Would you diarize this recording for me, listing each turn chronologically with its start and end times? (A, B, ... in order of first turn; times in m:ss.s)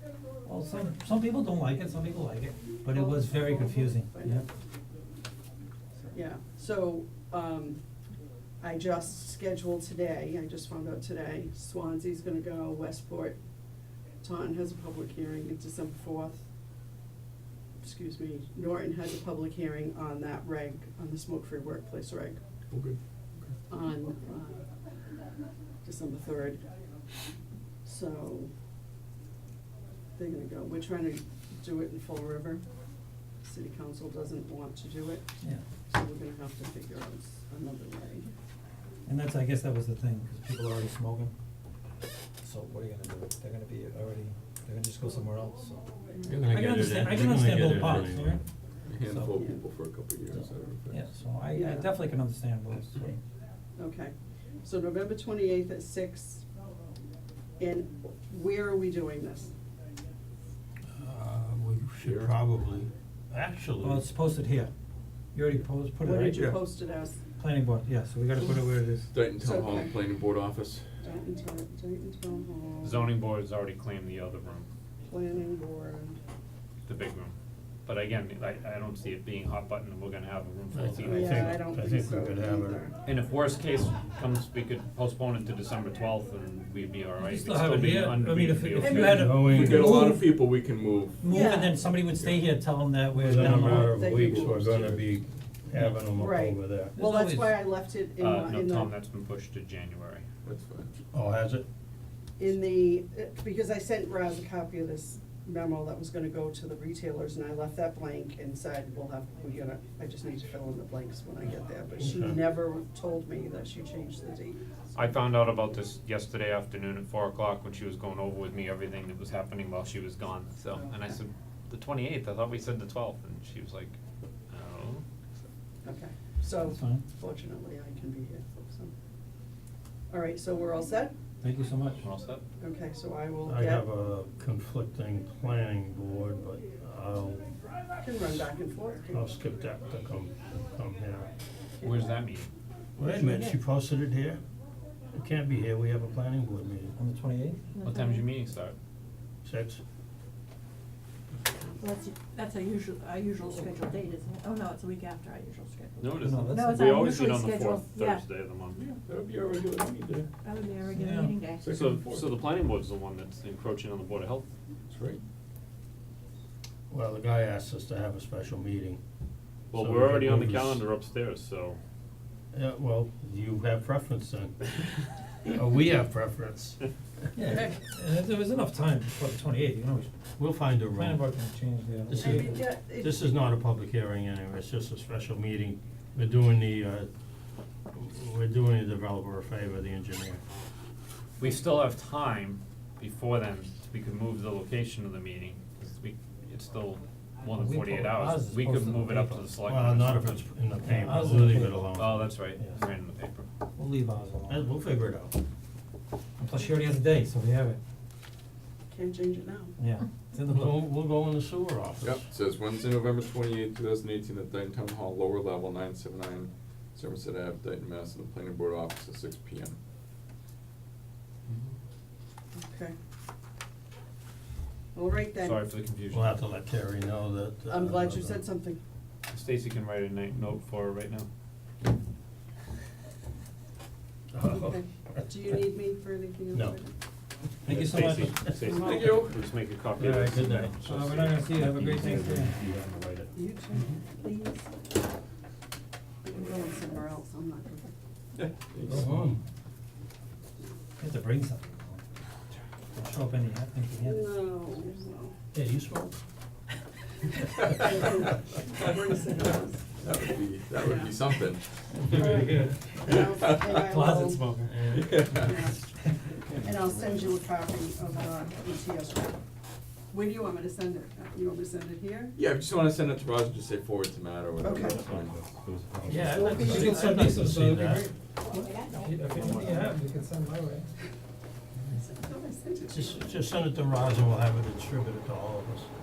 0:00.4-0:04.4 A
0:02.9-0:04.4 B
0:06.1-0:07.8 B
0:08.6-0:13.4 B
0:14.2-0:16.5 B
0:17.8-0:22.4 B
0:22.7-0:23.6 C
0:23.7-0:24.6 B
0:25.8-0:26.6 B
0:27.8-0:28.5 B
0:30.2-0:32.6 B
0:33.4-0:35.2 B
0:35.9-0:38.3 B
0:39.1-0:41.3 A
0:42.4-0:45.8 A
0:46.1-0:46.4 B
0:46.3-0:48.4 D
0:46.4-0:48.4 A
0:46.4-0:48.1 C
0:48.9-0:51.1 C
0:49.0-0:49.4 A
0:50.9-0:53.2 A
0:51.5-0:51.9 B
0:53.8-0:56.5 B
0:57.6-0:59.5 B
1:00.9-1:04.1 D
1:02.0-1:02.3 C
1:03.8-1:04.7 A
1:05.3-1:06.4 A
1:06.0-1:07.2 B
1:06.3-1:06.6 C
1:07.4-1:09.1 A
1:09.1-1:10.8 C
1:09.4-1:09.9 B
1:11.0-1:13.1 B
1:12.8-1:14.7 E
1:15.0-1:16.2 B
1:16.9-1:17.4 E
1:17.9-1:21.6 E
1:20.7-1:22.8 D
1:21.1-1:23.0 B
1:23.1-1:29.4 E
1:27.2-1:30.2 A
1:28.8-1:30.2 D
1:29.4-1:31.3 C
1:31.2-1:34.1 A
1:31.3-1:31.8 F
1:31.8-1:32.4 C
1:33.2-1:36.9 D
1:33.3-1:34.6 B
1:34.0-1:35.2 C
1:36.1-1:38.9 B
1:37.0-1:37.6 A
1:38.2-1:40.2 E
1:40.4-1:40.9 C
1:41.1-1:41.6 D
1:42.4-1:54.6 B
1:52.0-1:52.4 D
1:55.0-2:04.0 E
2:00.7-2:01.0 B
2:04.5-2:05.0 E
2:05.8-2:08.9 B
2:06.6-2:07.0 A
2:10.1-2:11.1 B
2:11.4-2:12.0 A
2:12.0-2:12.4 E
2:12.6-2:13.8 B
2:13.4-2:17.5 D
2:18.0-2:19.2 B
2:19.1-2:21.3 D
2:21.8-2:22.5 E
2:23.0-2:24.4 D
2:23.0-2:23.6 F
2:25.1-2:26.9 D
2:27.0-2:27.6 A
2:27.7-2:28.3 F
2:27.8-2:28.8 E
2:29.4-2:29.8 D
2:31.8-2:38.2 F
2:36.0-2:38.8 E
2:36.2-2:36.8 A
2:38.8-2:40.3 C
2:40.4-2:41.7 F
2:40.9-2:41.4 A
2:41.6-2:42.4 C
2:41.7-2:44.5 E
2:44.9-2:45.2 C
2:46.9-2:49.0 D
2:49.7-2:51.8 E
2:49.7-2:50.8 D
2:52.5-2:54.7 D
2:55.4-2:56.8 D
2:57.4-3:00.1 A
3:00.4-3:01.2 D
3:00.9-3:02.5 A
3:02.1-3:07.1 D
3:02.2-3:03.2 B
3:07.9-3:10.4 D
3:11.4-3:20.5 E
3:17.5-3:19.5 A
3:19.6-3:22.6 D
3:20.8-3:21.9 A
3:21.9-3:23.5 E
3:23.8-3:24.6 A
3:24.5-3:25.3 D
3:26.4-3:27.8 A
3:28.9-3:29.8 B
3:29.8-3:30.8 A
3:30.4-3:32.3 D
3:32.0-3:39.8 C
3:41.5-3:41.7 E
3:42.6-3:43.0 B
3:44.9-3:45.6 B
3:45.4-3:46.4 E
3:46.1-3:48.4 D
3:47.7-3:48.8 B
3:49.3-3:51.3 E
3:54.3-3:55.2 D
3:54.5-3:56.9 B
3:57.6-3:58.6 D
3:57.7-4:03.3 E
3:57.7-3:58.3 A
3:58.6-3:59.5 C
3:58.7-3:59.2 B
4:00.0-4:00.8 D
4:00.8-4:02.6 A
4:03.3-4:03.9 B
4:04.1-4:04.7 F
4:06.2-4:07.9 B
4:08.4-4:09.1 C
4:08.9-4:09.4 D
4:11.0-4:12.0 A
4:13.0-4:14.3 A
4:14.0-4:15.4 B
4:15.5-4:16.2 D
4:17.7-4:19.9 B
4:20.0-4:22.2 C
4:20.8-4:21.2 B
4:21.9-4:24.9 A
4:22.1-4:24.4 B
4:23.1-4:23.7 C
4:24.7-4:25.6 D
4:24.9-4:25.6 C
4:25.3-4:26.0 B
4:26.5-4:29.4 B
4:30.1-4:32.4 B
4:32.4-4:35.4 C
4:34.6-4:35.0 B
4:34.7-4:37.0 E
4:36.1-4:38.1 D
4:36.4-4:37.0 F
4:36.5-4:40.9 A
4:38.5-4:39.8 F
4:39.3-4:40.0 E
4:41.9-4:43.4 B
4:42.9-4:45.9 D